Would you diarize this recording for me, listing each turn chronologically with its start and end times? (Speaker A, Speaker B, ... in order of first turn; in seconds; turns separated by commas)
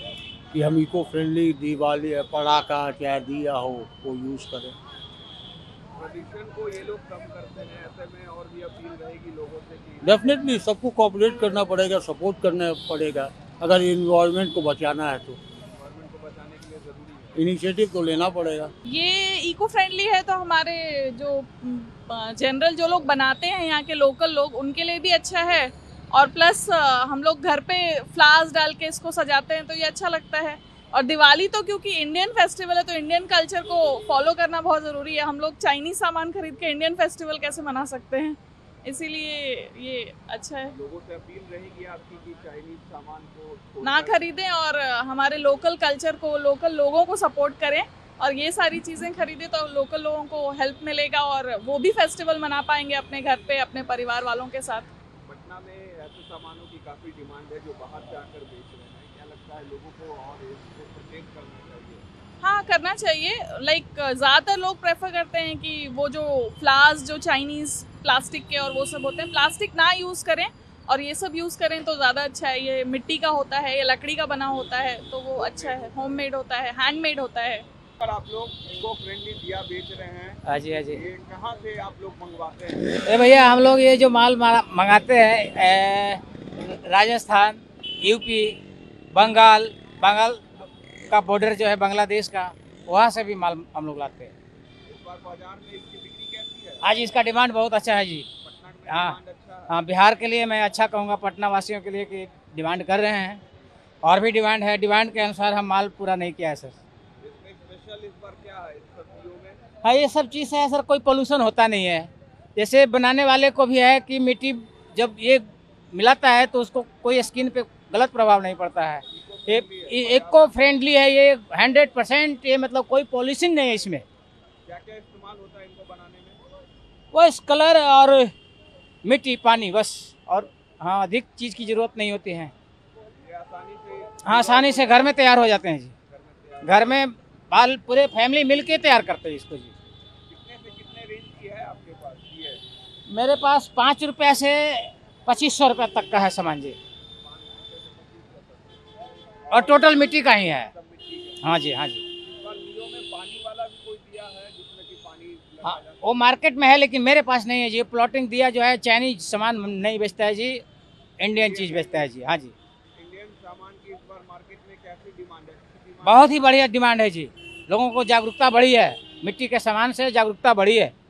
Speaker A: 0.5-4.7, Speaker B: 5.9-10.3, Speaker A: 10.0-15.4, Speaker B: 15.7-17.4, Speaker A: 17.4-18.7, Speaker C: 18.9-40.7, Speaker B: 40.7-44.2, Speaker C: 43.8-54.9, Speaker B: 55.2-62.0, Speaker C: 62.4-77.6, Speaker B: 75.4-76.2, Speaker B: 78.0-83.0, Speaker D: 80.5-81.0, Speaker D: 83.0-88.6, Speaker D: 89.1-90.4, Speaker D: 91.1-94.3, Speaker B: 94.8-96.9, Speaker D: 96.8-98.3, Speaker B: 98.4-99.7, Speaker D: 98.9-99.2, Speaker D: 99.7-103.4, Speaker D: 104.0-106.8, Speaker B: 107.2-109.6, Speaker D: 109.8-124.0, Speaker B: 119.1-120.8, Speaker B: 124.7-126.4, Speaker D: 127.1-128.3, Speaker D: 129.0-132.5, Speaker B: 133.2-135.2, Speaker D: 134.2-135.9, Speaker B: 136.1-137.0, Speaker D: 136.6-139.7, Speaker B: 140.3-142.6, Speaker D: 143.1-146.8, Speaker B: 147.2-148.8, Speaker B: 149.5-151.4, Speaker D: 149.5-150.7, Speaker D: 151.4-152.0, Speaker B: 152.2-156.2, Speaker D: 155.6-160.6, Speaker D: 161.2-162.5, Speaker B: 161.3-162.1, Speaker B: 163.0-166.3, Speaker D: 166.0-170.9